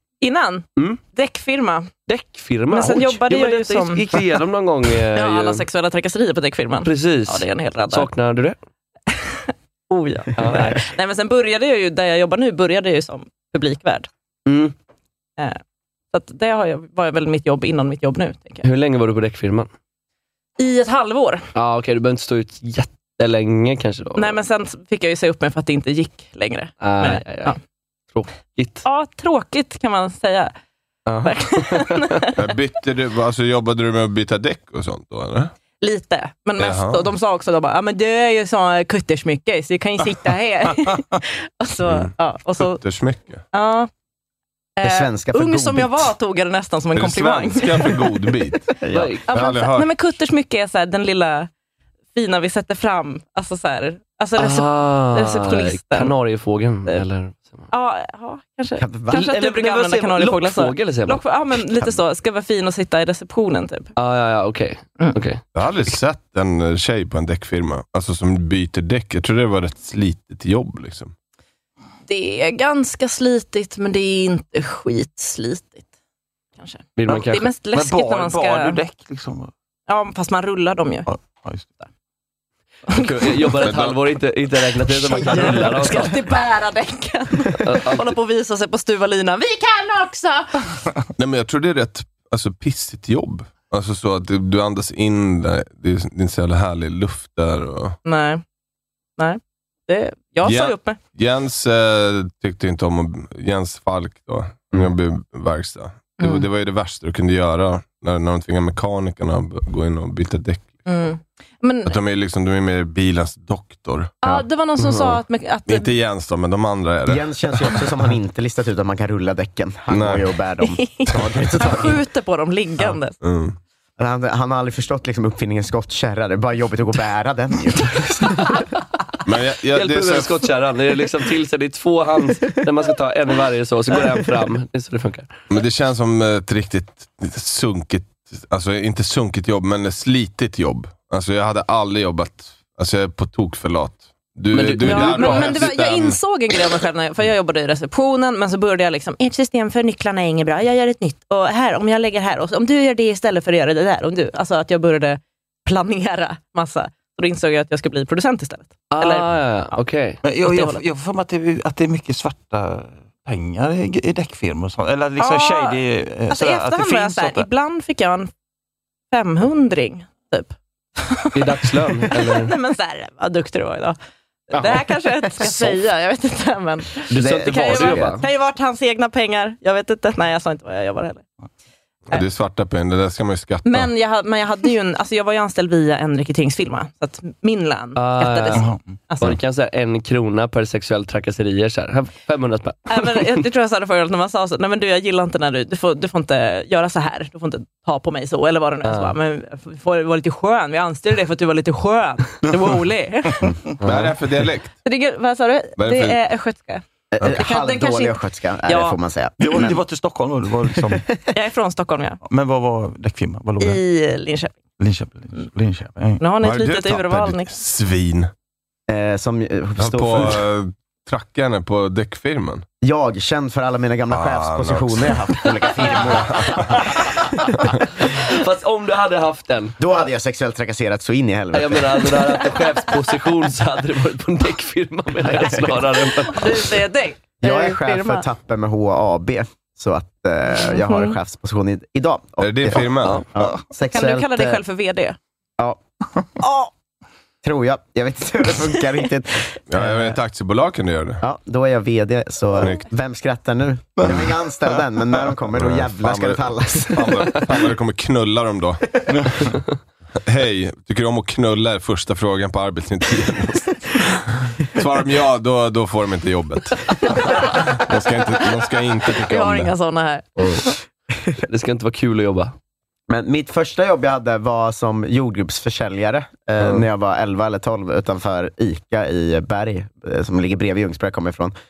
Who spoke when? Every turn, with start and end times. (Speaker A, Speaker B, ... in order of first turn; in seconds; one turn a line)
Speaker A: 0.2-1.9
Speaker B: 2.1-5.6
Speaker A: 2.7-4.4
Speaker A: 5.1-8.1
Speaker B: 6.8-8.6
Speaker A: 9.1-14.1
Speaker B: 10.4-10.8
Speaker B: 14.5-14.7
Speaker A: 16.1-18.7
Speaker B: 18.6-19.7
Speaker A: 20.6-21.4
Speaker B: 21.5-24.4
Speaker A: 24.2-27.6
Speaker B: 26.8-27.6
Speaker B: 28.1-28.8
Speaker A: 28.8-30.5
Speaker B: 31.1-32.2
Speaker A: 31.2-32.4
Speaker C: 32.4-35.5
Speaker A: 35.8-42.8
Speaker C: 36.6-37.1
Speaker C: 41.9-43.4
Speaker A: 43.5-43.9
Speaker A: 44.8-48.1
Speaker D: 44.8-46.1
Speaker C: 47.0-48.7
Speaker D: 48.8-49.1
Speaker B: 48.9-49.2
Speaker A: 49.3-51.5
Speaker C: 49.3-49.9
Speaker A: 52.1-56.1
Speaker B: 54.4-57.7
Speaker A: 57.7-63.9
Speaker D: 58.8-59.2
Speaker B: 59.1-61.2
Speaker B: 64.0-65.4
Speaker C: 65.5-71.1
Speaker A: 72.1-75.9
Speaker A: 76.6-78.8
Speaker B: 77.0-77.5
Speaker E: 77.7-79.5
Speaker A: 79.9-81.1
Speaker E: 81.1-81.8
Speaker A: 82.9-83.6
Speaker B: 82.9-86.2
Speaker C: 83.6-84.0
Speaker A: 85.0-90.7
Speaker B: 87.6-88.1
Speaker C: 91.2-98.0
Speaker A: 98.0-98.4
Speaker A: 99.2-101.0
Speaker C: 100.4-110.8
Speaker A: 106.2-106.5
Speaker A: 110.9-112.0
Speaker C: 111.8-114.4
Speaker A: 114.2-115.9
Speaker B: 114.8-115.2
Speaker C: 115.7-117.8
Speaker D: 117.1-122.0
Speaker C: 119.9-120.3
Speaker A: 120.6-123.2
Speaker C: 123.2-123.6
Speaker D: 124.0-128.6
Speaker C: 129.2-130.4
Speaker B: 129.7-135.4
Speaker C: 135.5-146.2
Speaker B: 144.5-145.6
Speaker A: 144.8-159.3
Speaker B: 158.9-160.2
Speaker E: 160.2-167.5
Speaker A: 160.4-160.8
Speaker A: 165.2-168.3
Speaker A: 169.1-174.0
Speaker B: 171.3-172.5
Speaker B: 174.5-174.8
Speaker A: 174.5-181.2
Speaker B: 177.1-178.2
Speaker D: 177.1-178.2
Speaker C: 182.1-183.9
Speaker A: 183.7-189.3
Speaker B: 187.9-188.7
Speaker E: 188.6-188.9
Speaker B: 189.2-193.4
Speaker A: 192.9-203.5
Speaker B: 198.8-199.1
Speaker B: 203.8-204.1
Speaker C: 203.8-204.7
Speaker A: 204.8-209.0
Speaker C: 205.8-206.2
Speaker D: 207.1-209.8
Speaker E: 209.4-211.1
Speaker A: 211.3-212.2
Speaker E: 212.2-213.8
Speaker A: 213.6-214.6
Speaker E: 214.8-216.2
Speaker A: 216.2-217.5
Speaker C: 216.4-218.3
Speaker D: 218.9-220.5
Speaker C: 219.8-222.7
Speaker D: 222.8-227.6
Speaker C: 224.1-225.2
Speaker C: 226.0-226.7
Speaker B: 228.1-229.8
Speaker D: 229.8-232.2
Speaker B: 231.5-236.5
Speaker D: 235.2-235.9
Speaker A: 235.5-238.3
Speaker D: 237.4-244.6
Speaker A: 240.5-241.2
Speaker C: 242.4-243.2
Speaker A: 243.9-245.2
Speaker A: 246.4-246.7
Speaker D: 247.4-250.2
Speaker C: 249.7-251.2
Speaker D: 251.2-257.4
Speaker C: 252.6-252.8
Speaker E: 254.0-254.8
Speaker C: 255.5-258.8
Speaker E: 259.1-259.5
Speaker C: 260.3-269.7
Speaker A: 267.0-267.8
Speaker A: 269.1-270.5
Speaker B: 271.4-272.5
Speaker D: 273.1-281.5